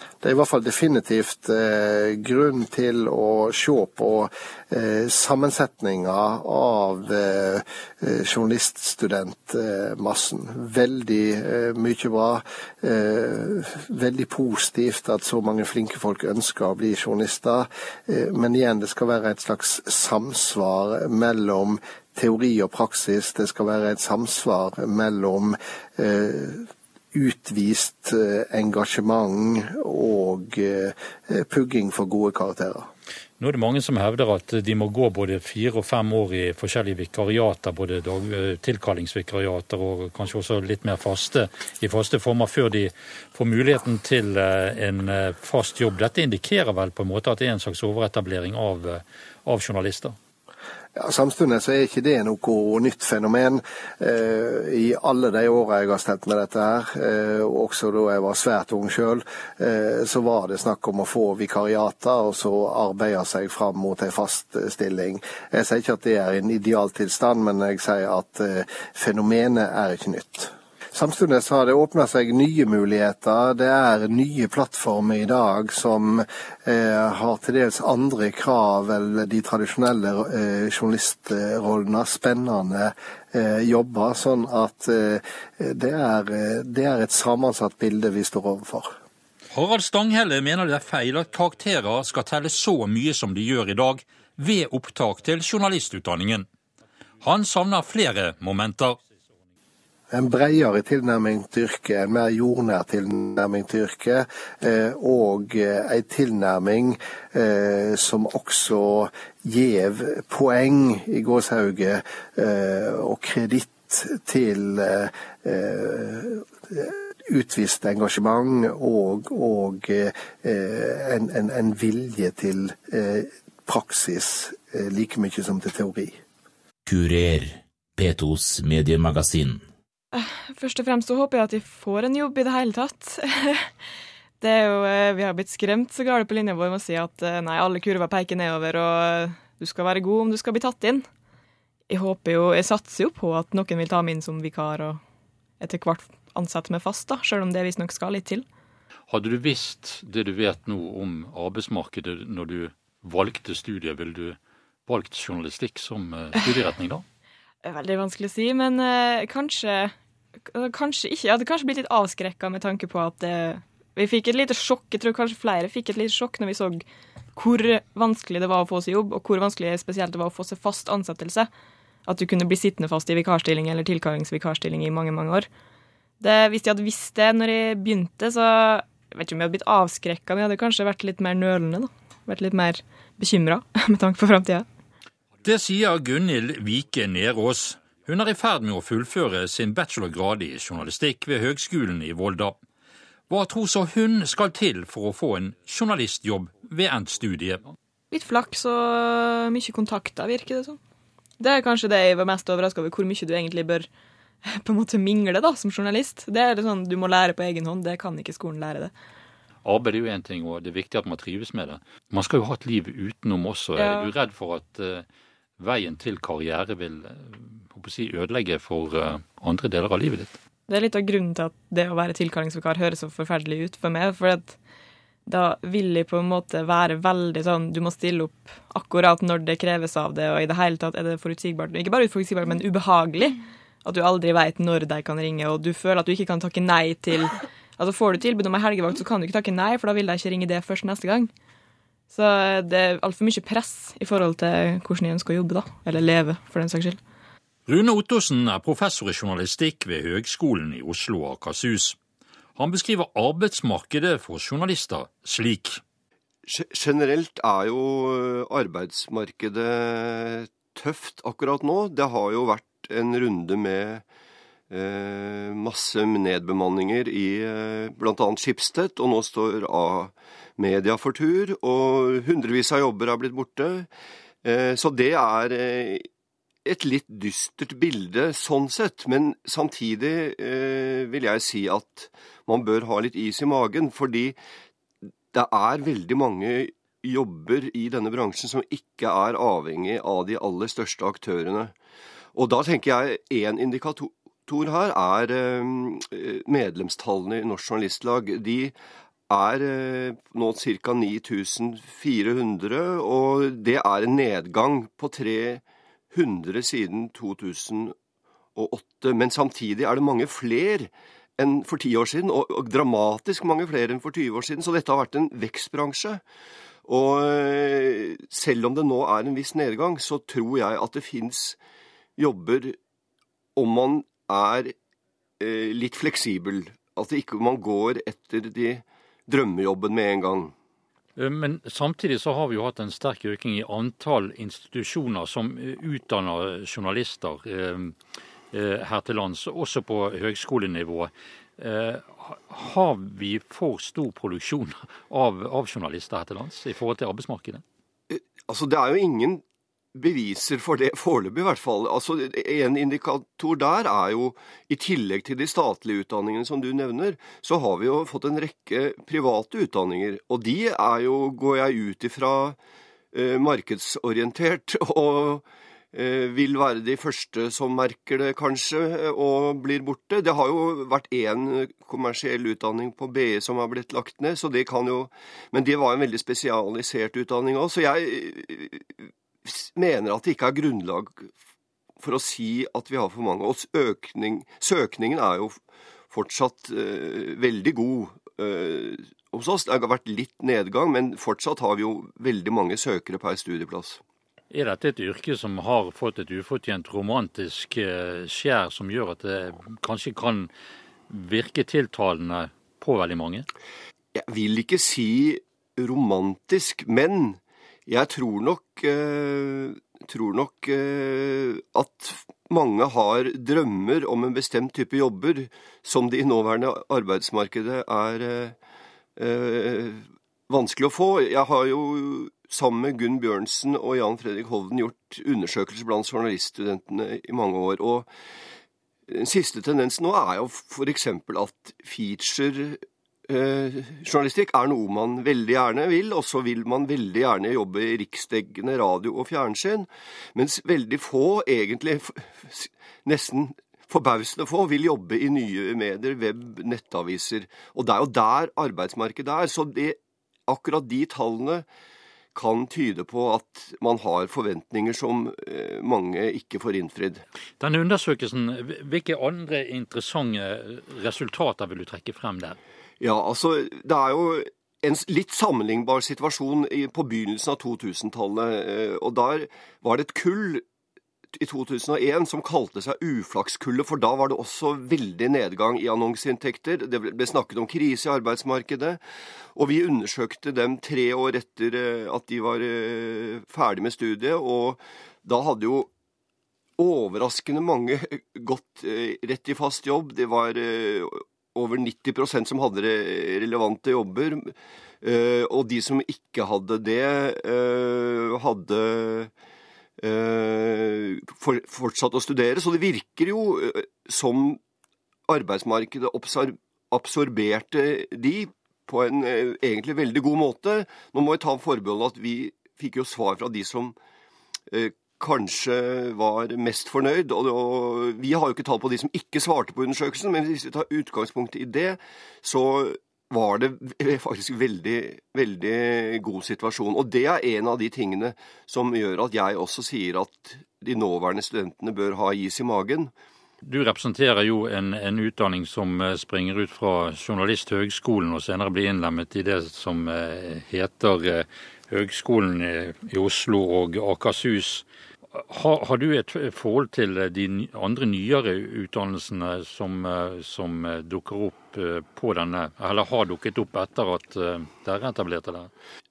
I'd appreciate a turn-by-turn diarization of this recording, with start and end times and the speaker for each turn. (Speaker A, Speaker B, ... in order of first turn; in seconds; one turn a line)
Speaker A: 0.2-32.9
Speaker B: 33.4-50.1
Speaker A: 51.0-88.9
Speaker B: 89.5-96.5
Speaker B: 97.2-99.0
Speaker A: 100.1-126.2
Speaker C: 126.8-129.6
Speaker D: 130.1-133.7
Speaker D: 134.4-141.1
Speaker D: 141.9-145.0
Speaker D: 145.6-148.4
Speaker B: 149.1-157.0
Speaker D: 157.6-159.9
Speaker D: 160.4-166.8
Speaker D: 167.3-171.5
Speaker D: 172.1-175.5
Speaker D: 176.2-184.7
Speaker B: 185.4-192.6
Speaker B: 193.3-197.7
Speaker D: 198.1-200.8
Speaker D: 201.4-203.9
Speaker D: 204.4-208.9
Speaker B: 209.6-215.1
Speaker D: 213.8-214.1
Speaker B: 215.6-220.4
Speaker D: 220.7-224.6
Speaker D: 225.2-241.3
Speaker D: 242.1-247.0
Speaker B: 247.7-252.0
Speaker B: 252.6-255.8
Speaker E: 256.4-264.0
Speaker E: 264.7-273.9
Speaker E: 274.4-276.1
Speaker E: 276.6-284.4
Speaker E: 285.3-291.7
Speaker E: 292.3-298.7
Speaker E: 299.3-307.9
Speaker E: 308.6-316.2
Speaker E: 316.9-321.6
Speaker E: 322.2-322.8
Speaker E: 323.6-324.7
Speaker E: 325.4-330.5
Speaker B: 331.1-337.9
Speaker B: 338.5-347.6
Speaker E: 348.1-349.4
Speaker E: 349.9-362.6
Speaker E: 363.1-381.3
Speaker E: 382.0-385.6
Speaker E: 386.1-394.0
Speaker B: 394.5-400.5
Speaker B: 401.1-403.5
Speaker E: 404.1-418.6
Speaker E: 419.1-428.1
Speaker E: 429.1-451.6
Speaker E: 452.3-457.2
Speaker B: 457.6-462.6
Speaker E: 463.0-470.6
Speaker E: 471.3-479.0
Speaker E: 479.5-485.9
Speaker E: 486.8-499.3
Speaker E: 500.0-504.6
Speaker E: 505.3-514.0
Speaker E: 514.7-533.1
Speaker B: 533.6-555.7